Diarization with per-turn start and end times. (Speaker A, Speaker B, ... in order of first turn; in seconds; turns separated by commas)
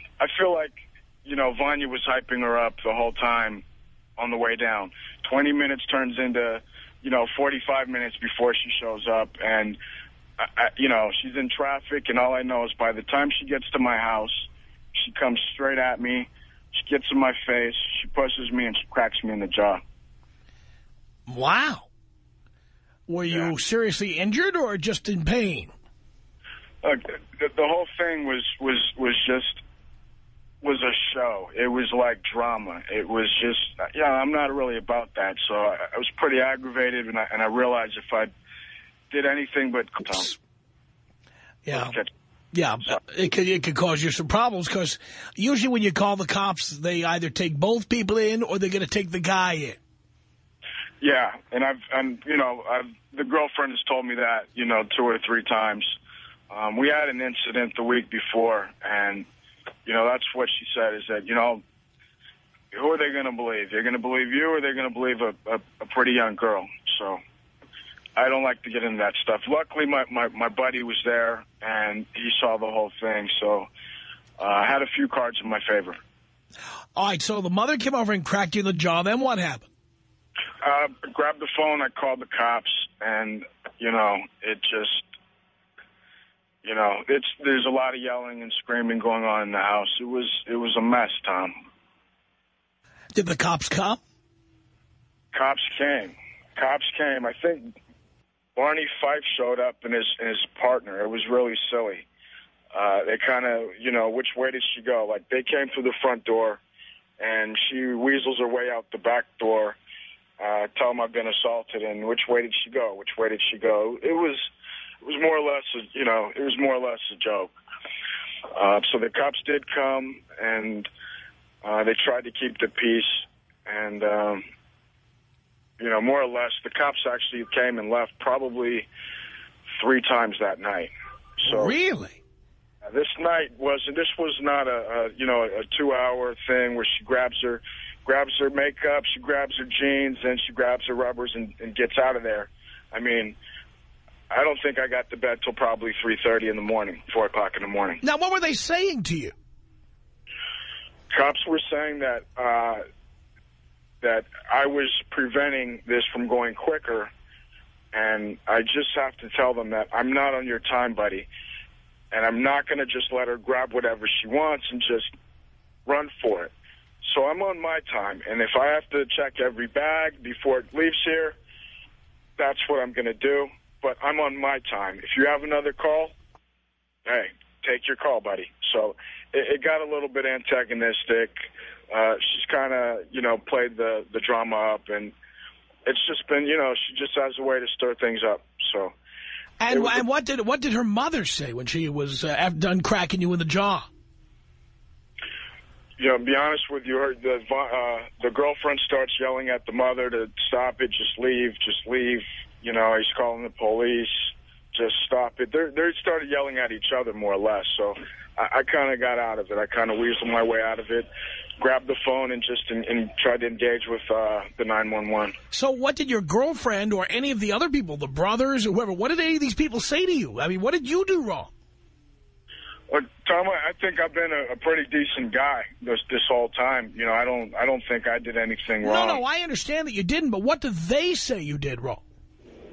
Speaker A: 0.2-3.6, Speaker A: 4.2-9.8, Speaker A: 10.4-19.8, Speaker B: 21.3-21.9, Speaker B: 23.1-25.7, Speaker A: 26.8-29.6, Speaker A: 30.6-38.3, Speaker A: 39.1-40.3, Speaker B: 41.6-42.0, Speaker A: 41.7-42.1, Speaker B: 42.5-49.8, Speaker A: 51.0-55.9, Speaker A: 56.5-59.3, Speaker A: 59.9-61.6, Speaker A: 62.7-67.2, Speaker A: 68.2-73.7, Speaker A: 74.4-76.0, Speaker B: 77.0-79.7, Speaker A: 80.6-85.0, Speaker A: 86.6-91.5, Speaker B: 93.1-94.0, Speaker A: 95.3-97.7, Speaker A: 98.6-102.1, Speaker A: 102.7-106.6, Speaker A: 107.2-109.8, Speaker A: 110.4-114.5, Speaker A: 115.0-117.5, Speaker A: 118.5-120.9, Speaker A: 121.6-124.4, Speaker A: 125.8-128.9, Speaker A: 129.8-131.8, Speaker B: 131.4-132.2, Speaker A: 132.9-143.4, Speaker A: 144.3-148.0, Speaker B: 148.0-149.3, Speaker A: 151.1-152.8, Speaker A: 154.0-157.1, Speaker A: 157.9-161.3, Speaker A: 162.1-165.1, Speaker A: 165.9-166.5, Speaker A: 167.0-171.4, Speaker A: 172.4-176.1, Speaker A: 177.1-185.1, Speaker A: 185.8-188.9, Speaker B: 189.6-193.9, Speaker A: 189.7-190.0, Speaker A: 196.0-211.1, Speaker A: 211.6-215.3, Speaker B: 215.5-221.5, Speaker A: 222.9-229.2, Speaker B: 228.8-232.0